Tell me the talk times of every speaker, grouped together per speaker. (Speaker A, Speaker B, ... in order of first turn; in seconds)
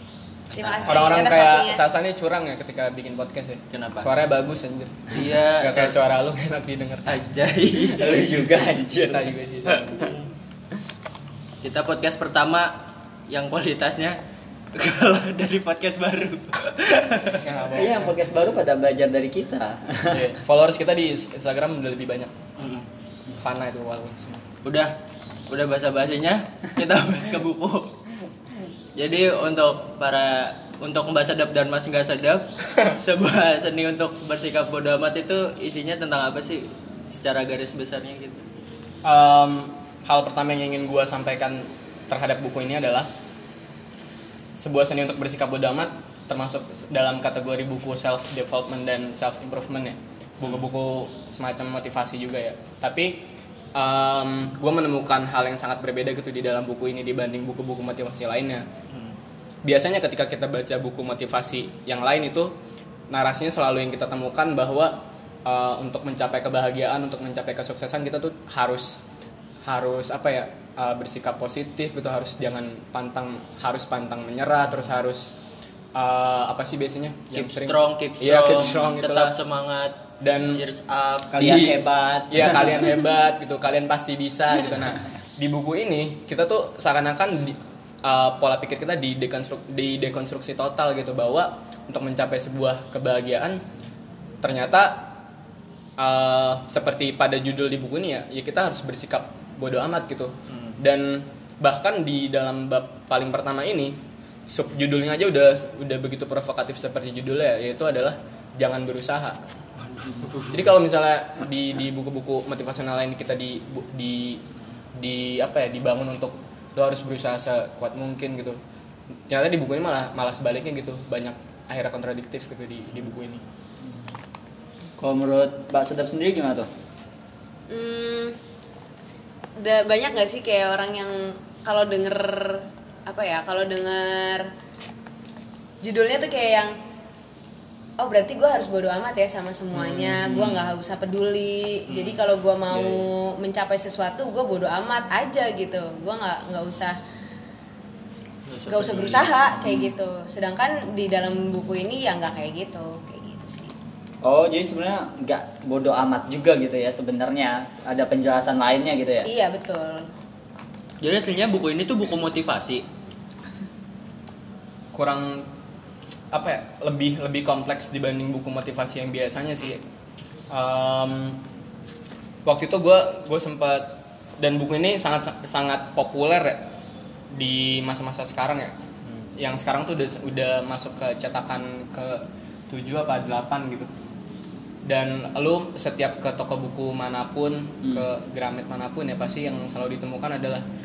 Speaker A: 0.5-1.8, 127.7-128.4, 129.6-134.5, 135.8-136.8, 138.0-147.0, 148.7-153.7, 159.2-160.1
Speaker B: 0.6-1.1, 7.9-10.1, 17.7-20.4, 81.3-82.9, 125.0-126.7, 142.7-143.0, 154.2-159.3
Speaker C: 0.8-7.2, 8.9-10.2, 17.4-18.2, 20.1-22.3, 23.4-24.5, 39.0-43.1, 44.5-58.7, 59.6-62.5, 63.1-69.0, 69.7-75.3, 75.9-79.4, 80.2-80.6, 81.4-93.6, 94.4-95.2, 96.0-109.4, 110.5-114.4, 114.9-118.6, 119.3-123.4, 164.9-165.5, 166.3-169.8, 170.5-171.4, 172.4-176.7, 177.3-178.8, 179.4-183.9, 184.8-190.6
Speaker D: 3.7-4.1, 5.1-6.0, 7.1-8.2, 11.6-14.2, 14.7-17.4, 22.6-22.9, 24.6-24.9, 25.5-28.1, 28.9-38.4, 58.9-59.2, 77.3-81.6, 100.5-100.8, 109.8-110.7, 139.7-140.7, 141.9-142.2, 148.5-149.8, 161.0-162.8